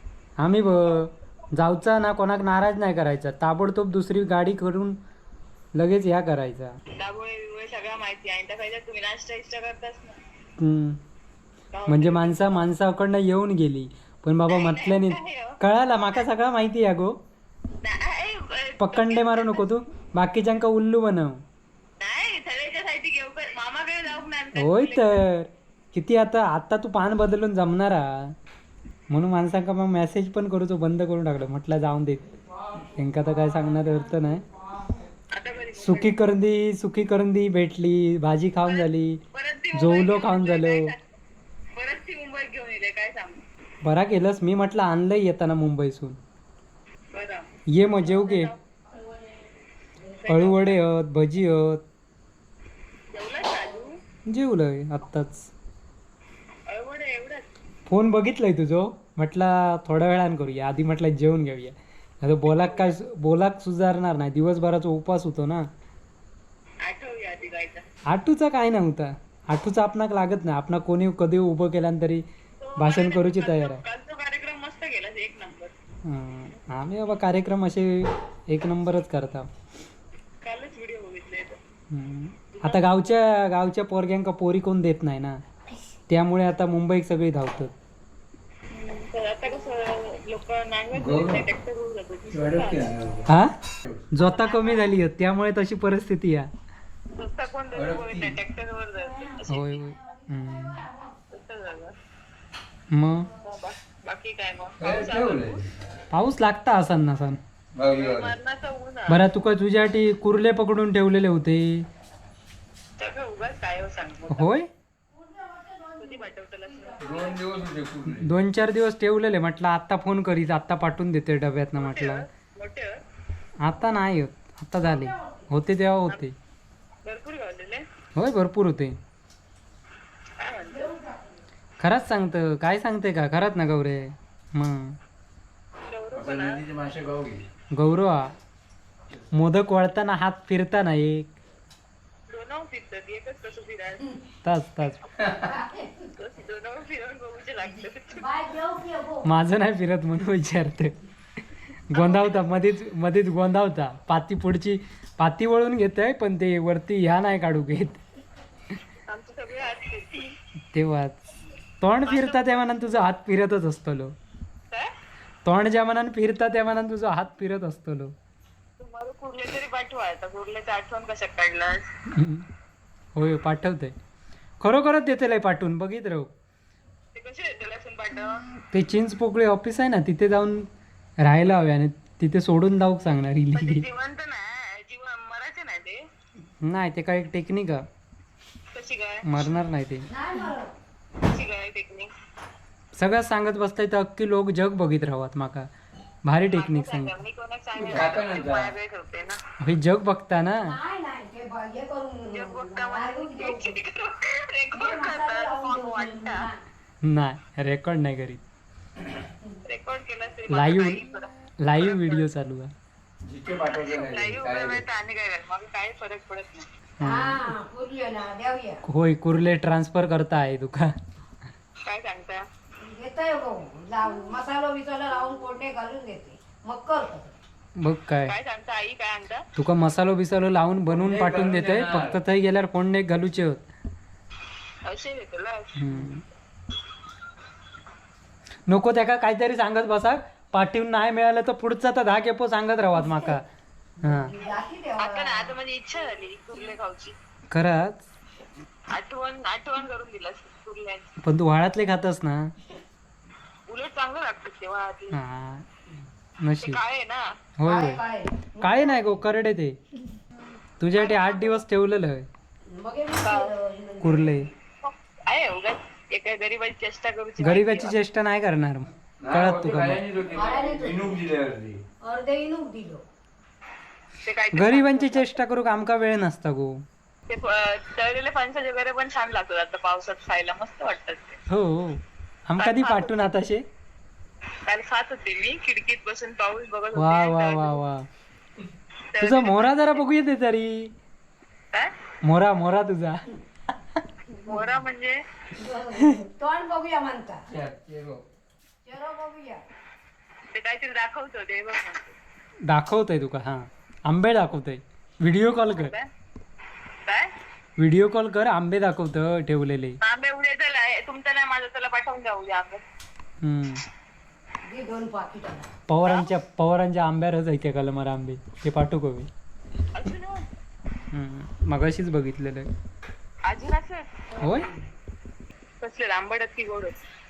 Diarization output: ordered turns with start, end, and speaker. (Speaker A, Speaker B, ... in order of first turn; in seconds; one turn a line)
Speaker A: 0.4-5.0
Speaker A: 5.8-6.7
Speaker B: 6.9-10.2
Speaker A: 10.6-11.0
Speaker B: 11.7-12.4
Speaker A: 11.9-17.1
Speaker B: 14.5-15.6
Speaker B: 17.8-19.6
Speaker A: 18.8-21.4
Speaker B: 22.0-25.2
Speaker A: 24.5-28.3
Speaker A: 29.1-32.2
Speaker A: 33.0-34.4
Speaker B: 35.3-36.2
Speaker A: 35.8-39.2
Speaker B: 38.6-41.0
Speaker A: 39.7-40.9
Speaker B: 41.8-43.4
Speaker A: 43.8-46.2
Speaker B: 47.1-48.6
Speaker A: 47.7-48.5
Speaker B: 50.2-50.8
Speaker A: 50.3-51.8
Speaker B: 53.1-53.9
Speaker A: 54.3-55.5
Speaker B: 56.7-57.4
Speaker A: 57.9-65.6
Speaker B: 62.5-63.0
Speaker B: 66.8-67.8
Speaker A: 68.1-72.2
Speaker B: 72.6-75.7
Speaker A: 72.8-73.8
Speaker A: 76.0-79.5
Speaker B: 80.4-81.6
Speaker A: 81.9-85.4
Speaker B: 82.5-82.9
Speaker A: 86.1-87.7
Speaker B: 88.7-93.0
Speaker C: 90.9-91.4
Speaker C: 92.3-93.3
Speaker A: 93.2-93.5
Speaker A: 94.1-96.5
Speaker B: 94.2-94.9
Speaker B: 97.1-99.8
Speaker C: 97.7-98.3
Speaker A: 99.5-100.9
Speaker D: 100.3-101.1
Speaker B: 101.3-101.9
Speaker A: 102.9-103.3
Speaker B: 103.4-105.6
Speaker C: 104.8-105.6
Speaker A: 106.1-107.4
Speaker C: 107.7-108.3
Speaker B: 107.8-109.2
Speaker A: 109.1-111.8
Speaker B: 113.0-114.6
Speaker A: 114.3-114.7
Speaker D: 115.2-117.3
Speaker B: 116.0-117.4
Speaker C: 117.0-118.3
Speaker A: 118.1-122.2
Speaker B: 121.8-123.0
Speaker A: 123.6-126.3
Speaker D: 124.9-125.5
Speaker B: 127.0-127.8
Speaker A: 128.2-128.9
Speaker B: 130.4-130.9
Speaker D: 130.7-131.2
Speaker A: 131.8-135.0
Speaker B: 135.9-136.6
Speaker C: 136.1-137.4
Speaker A: 137.7-138.3
Speaker A: 139.3-141.3
Speaker B: 142.3-144.1
Speaker A: 144.4-145.0
Speaker D: 145.4-146.0
Speaker B: 146.2-148.3
Speaker D: 148.1-149.3
Speaker A: 149.2-150.9
Speaker A: 151.9-158.0
Speaker B: 151.9-152.6
Speaker B: 159.1-160.3
Speaker A: 160.7-161.2
Speaker A: 161.8-164.1
Speaker B: 162.0-162.7
Speaker A: 165.4-168.1
Speaker B: 168.8-171.9
Speaker A: 172.1-172.4
Speaker A: 173.2-173.9
Speaker A: 174.6-176.3
Speaker B: 177.1-178.4
Speaker A: 178.6-180.7
Speaker A: 181.2-183.8
Speaker B: 183.5-186.0
Speaker A: 186.6-187.8
Speaker B: 188.7-189.2
Speaker A: 189.2-190.1
Speaker D: 190.1-190.7
Speaker B: 191.2-192.1
Speaker A: 192.9-195.7
Speaker A: 196.2-197.2
Speaker B: 196.5-199.4
Speaker C: 197.7-198.7
Speaker A: 199.6-200.8
Speaker D: 200.6-203.8
Speaker B: 202.3-206.5
Speaker D: 204.7-206.6
Speaker A: 207.0-208.4
Speaker B: 209.6-212.3
Speaker A: 210.5-211.0
Speaker A: 211.6-212.7
Speaker C: 213.2-214.8
Speaker B: 213.7-216.7
Speaker A: 217.0-217.5
Speaker D: 217.0-218.8
Speaker A: 218.8-220.9
Speaker B: 221.8-222.4
Speaker D: 222.8-227.3
Speaker A: 227.8-228.3
Speaker B: 228.2-229.4
Speaker A: 229.6-233.6
Speaker C: 230.9-232.2
Speaker B: 234.8-235.8
Speaker A: 235.8-236.2
Speaker A: 238.7-243.4
Speaker D: 243.0-243.3
Speaker D: 244.0-245.5
Speaker A: 244.0-244.3
Speaker B: 245.0-247.2
Speaker A: 247.5-248.1
Speaker B: 248.9-251.1
Speaker A: 251.2-252.5
Speaker B: 253.7-255.2
Speaker A: 255.1-255.7
Speaker A: 256.4-256.8
Speaker B: 256.6-257.2
Speaker A: 257.6-258.0
Speaker D: 257.6-259.1
Speaker A: 258.6-259.8
Speaker A: 260.8-262.3
Speaker B: 260.9-261.6
Speaker D: 262.7-264.5
Speaker B: 263.2-263.6
Speaker A: 264.0-264.5
Speaker B: 264.8-267.9
Speaker A: 267.4-270.0
Speaker C: 269.2-271.8
Speaker D: 270.3-271.1
Speaker D: 272.0-273.0
Speaker B: 274.2-275.4
Speaker A: 274.5-276.8
Speaker B: 277.3-281.4
Speaker A: 281.5-283.6
Speaker B: 282.6-283.3
Speaker B: 284.6-287.8
Speaker A: 286.9-288.0
Speaker B: 289.1-290.1
Speaker A: 289.2-290.9
Speaker A: 292.2-293.2
Speaker B: 294.3-295.2
Speaker D: 295.6-297.4
Speaker C: 297.5-298.2
Speaker D: 298.8-299.6
Speaker B: 300.5-302.1
Speaker A: 302.7-305.9
Speaker B: 305.6-306.1
Speaker B: 307.1-307.3
Speaker A: 307.8-310.0
Speaker B: 310.0-312.8
Speaker A: 313.4-313.8
Speaker D: 314.6-315.7
Speaker A: 315.9-319.3
Speaker B: 316.0-316.3
Speaker B: 319.9-320.4
Speaker A: 321.1-322.7
Speaker B: 323.5-324.7
Speaker A: 324.4-324.7
Speaker B: 325.8-326.9